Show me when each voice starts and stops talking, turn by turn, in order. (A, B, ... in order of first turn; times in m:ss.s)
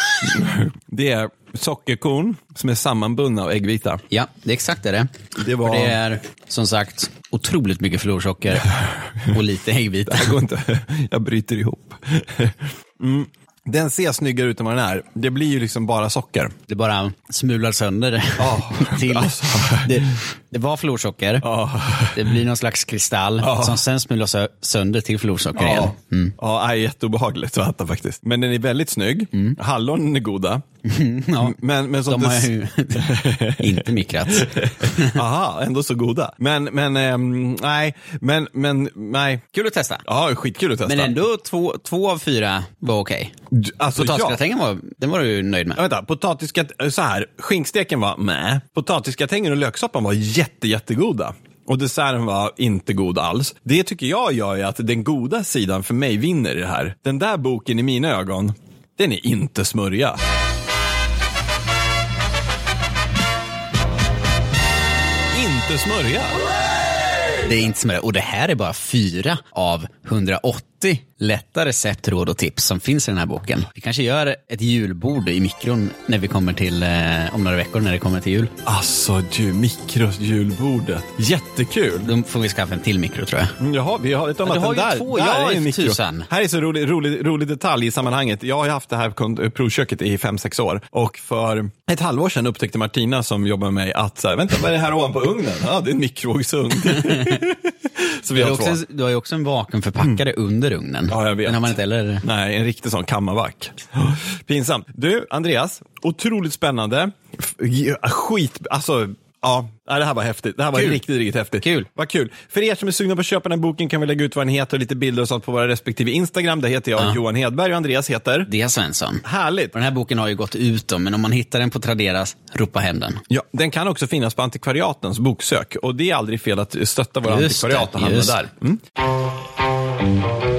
0:00.2-0:04.0 A
0:04.1-0:10.4 B
0:05.4-0:06.0 A
0:10.1-0:16.5 A
0:16.7-0:21.5 B
0:18.4-0:20.2 A
0:21.4-0:22.4 A
0:22.1-0:26.4 B
0:23.4-0:23.8 A
0:25.6-0:30.6 A
0:29.3-0:29.6 B
0:30.8-0:35.2 B
0:31.4-0:39.4 A
0:39.5-0:40.0 B
0:40.0-0:41.2 A
0:40.8-0:43.3 B
0:43.5-0:44.4 A
0:44.0-0:45.8 B
0:45.8-1:00.2 A
1:05.3-1:06.4 A
1:07.4-1:18.5 B
1:18.6-1:22.1 A
1:22.0-1:23.6 B
1:23.6-1:38.8 A
1:24.4-1:26.3 B
1:37.0-1:37.4 B
1:38.3-1:42.2 B
1:41.1-1:58.5 A
1:51.6-1:51.9 B
1:58.5-2:03.2 B
1:59.2-1:59.8 A
2:03.3-2:08.8 A
2:07.2-2:08.4 B